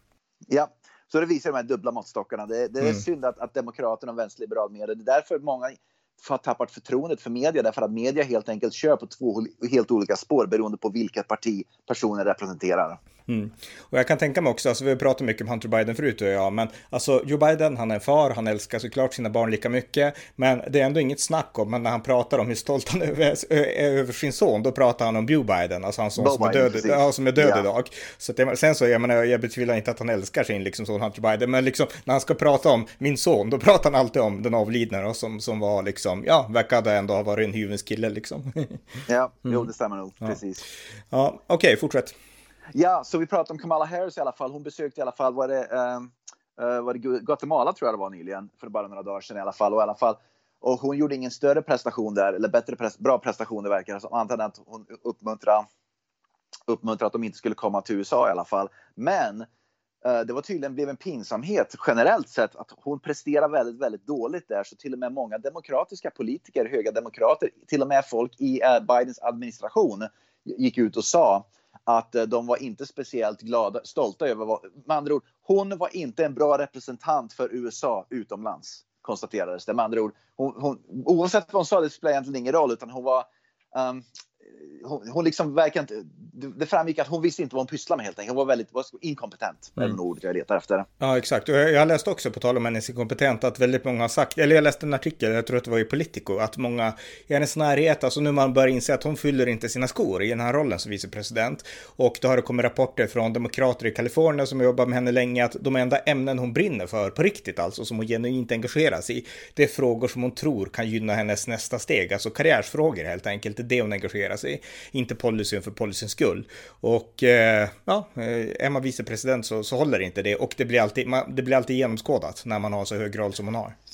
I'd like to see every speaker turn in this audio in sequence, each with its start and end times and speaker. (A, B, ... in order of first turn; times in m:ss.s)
0:00.5-0:13.0 A
0:13.3-0:39.7 B
0:26.2-0:27.6 A
0:39.1-0:40.6 A
0:41.1-0:42.1 B
0:42.7-0:55.6 A
0:56.7-0:59.5 A
1:00.0-1:30.9 A
1:31.0-2:03.7 B